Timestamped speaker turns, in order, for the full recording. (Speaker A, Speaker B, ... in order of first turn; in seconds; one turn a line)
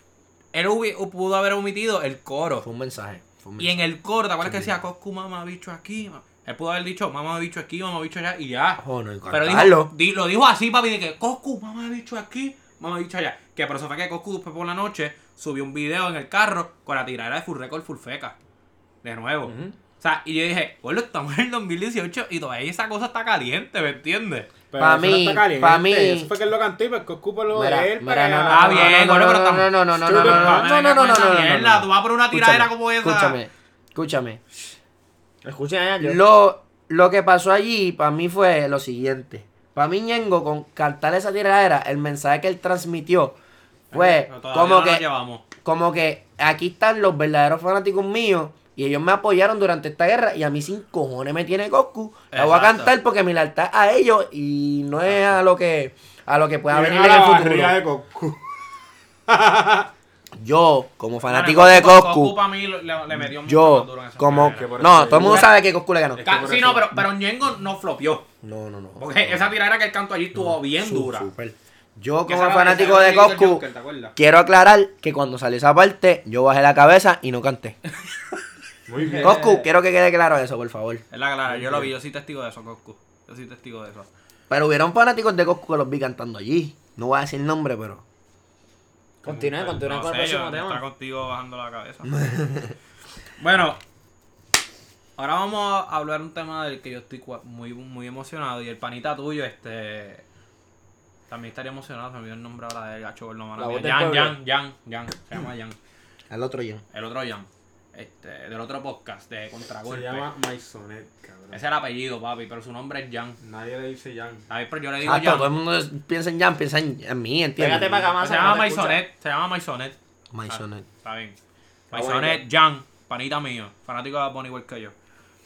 Speaker A: 0.5-2.6
Speaker B: 2.6-3.9
Speaker A: 3.6-18.3
Speaker B: 4.4-4.7
Speaker B: 8.8-9.9
Speaker A: 19.0-24.5
Speaker C: 19.4-19.8
Speaker D: 24.7-29.2
Speaker B: 24.8-26.3
Speaker B: 27.5-34.4
Speaker A: 28.5-33.4
Speaker D: 30.0-30.7
Speaker C: 35.4-36.2
Speaker B: 36.0-43.4
Speaker B: 43.9-45.0
Speaker A: 43.9-45.4
Speaker B: 45.6-57.8
Speaker A: 52.3-52.9
Speaker D: 56.7-58.4
Speaker D: 59.3-59.9
Speaker B: 60.4-62.4
Speaker A: 61.3-65.5
Speaker B: 63.4-66.2
Speaker D: 64.3-65.5
Speaker D: 66.1-66.9
Speaker A: 66.2-68.3
Speaker B: 68.4-69.5
Speaker A: 69.0-71.3
Speaker B: 70.3-73.6
Speaker A: 72.3-74.1
Speaker B: 74.2-77.8
Speaker D: 78.9-79.5
Speaker C: 79.0-79.7
Speaker B: 79.2-81.0
Speaker A: 81.1-84.1
Speaker D: 81.5-81.9
Speaker B: 84.5-88.0
Speaker D: 89.2-89.8
Speaker C: 89.2-90.8
Speaker A: 89.8-92.2
Speaker B: 92.2-92.7
Speaker A: 93.4-93.8
Speaker A: 95.2-100.2
Speaker A: 101.3-105.8
Speaker C: 103.6-104.4
Speaker B: 106.3-106.8
Speaker A: 106.9-110.3
Speaker D: 109.9-111.6
Speaker A: 111.5-113.4
Speaker D: 113.4-114.5
Speaker A: 114.5-115.5
Speaker B: 115.0-118.1
Speaker C: 117.6-119.0
Speaker A: 118.2-120.0
Speaker B: 120.3-120.9
Speaker A: 120.5-121.4
Speaker C: 121.9-122.4
Speaker A: 121.9-124.9